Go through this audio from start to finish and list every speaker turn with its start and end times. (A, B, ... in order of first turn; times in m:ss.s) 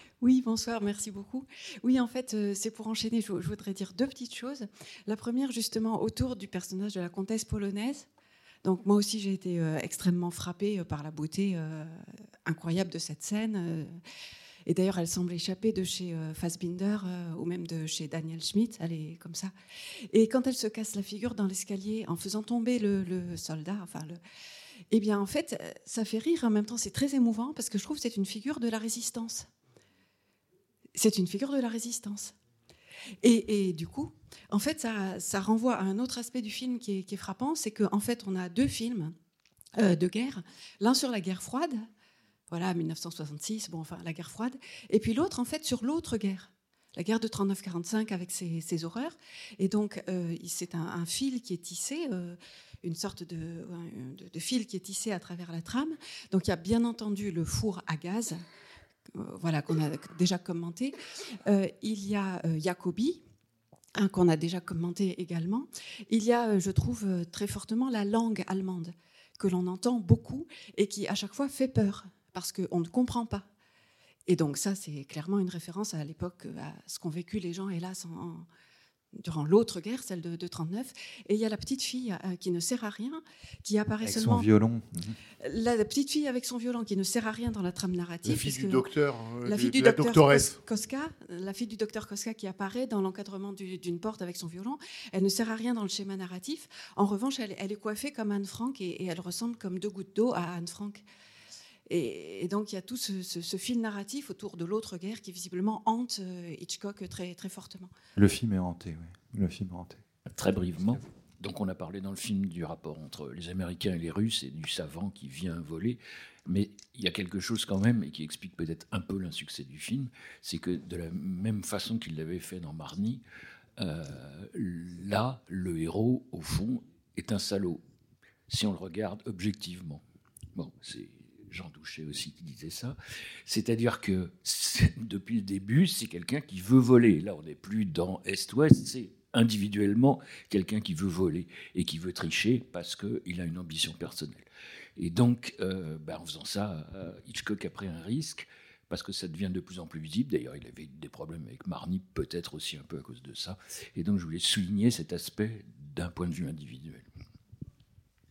0:00.2-0:08.1 A
0:08.6-0:14.0 A
0:14.7-0:19.5 A
0:20.1-0:24.2 A
0:24.9-0:29.5 A
0:31.0-0:32.3 A
0:33.2-0:39.2 A
0:39.8-0:41.9 A
0:42.5-0:58.4 A
0:59.2-1:01.0 A
1:01.5-1:03.2 A
1:04.0-1:13.5 A
1:14.3-1:18.5 A
1:19.2-1:24.5 A
1:24.0-1:25.2 B
1:25.4-1:28.9 A
1:28.2-1:30.6 C
1:29.4-1:41.0 A
1:41.9-1:47.9 A
1:48.2-1:50.0 B
1:50.3-2:03.2 D
2:03.8-2:07.8 D
2:08.5-2:10.0 D
2:10.6-2:24.5 D
2:25.0-2:37.1 D